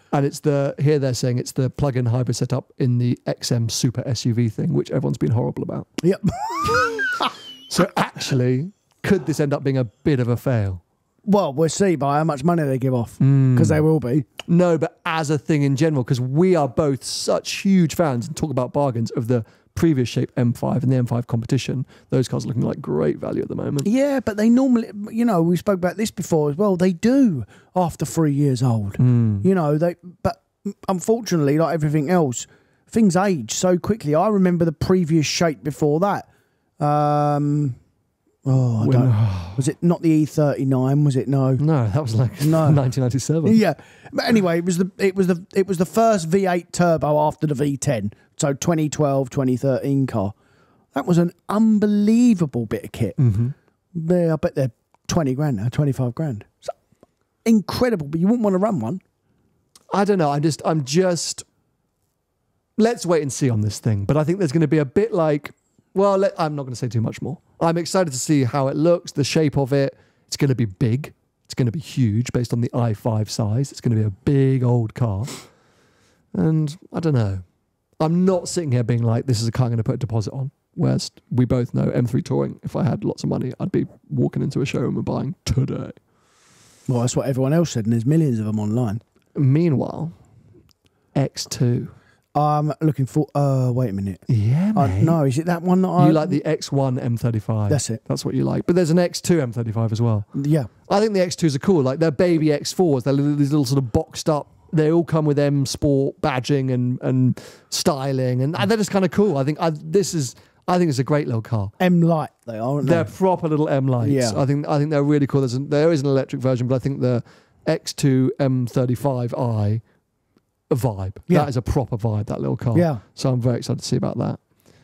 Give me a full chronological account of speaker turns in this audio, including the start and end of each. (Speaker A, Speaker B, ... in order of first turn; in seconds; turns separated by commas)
Speaker A: 0.1-5.9, Speaker B: 6.0-7.3, Speaker A: 6.6-10.8, Speaker B: 11.2-14.3, Speaker A: 13.2-13.8, Speaker A: 14.5-23.9, Speaker B: 23.8-36.3, Speaker A: 29.0-29.4, Speaker B: 36.8-37.8, Speaker B: 38.4-41.6, Speaker A: 38.8-39.7, Speaker A: 41.6-43.6, Speaker B: 42.4-42.8, Speaker B: 43.4-50.3, Speaker B: 50.9-53.1, Speaker A: 53.2-53.5, Speaker B: 53.9-56.7, Speaker B: 57.4-59.0, Speaker A: 59.9-61.4, Speaker A: 62.8-75.4, Speaker A: 76.3-77.4, Speaker A: 78.0-86.0, Speaker B: 86.9-89.0, Speaker A: 89.3-90.1, Speaker A: 91.1-91.9, Speaker B: 92.3-94.2, Speaker A: 94.3-95.2, Speaker B: 94.7-96.4, Speaker A: 96.0-100.3, Speaker B: 97.7-98.0, Speaker B: 100.3-100.7, Speaker A: 100.9-111.7, Speaker B: 111.8-113.1, Speaker A: 112.8-119.8, Speaker B: 114.0-114.4, Speaker A: 120.7-124.4, Speaker B: 122.7-123.0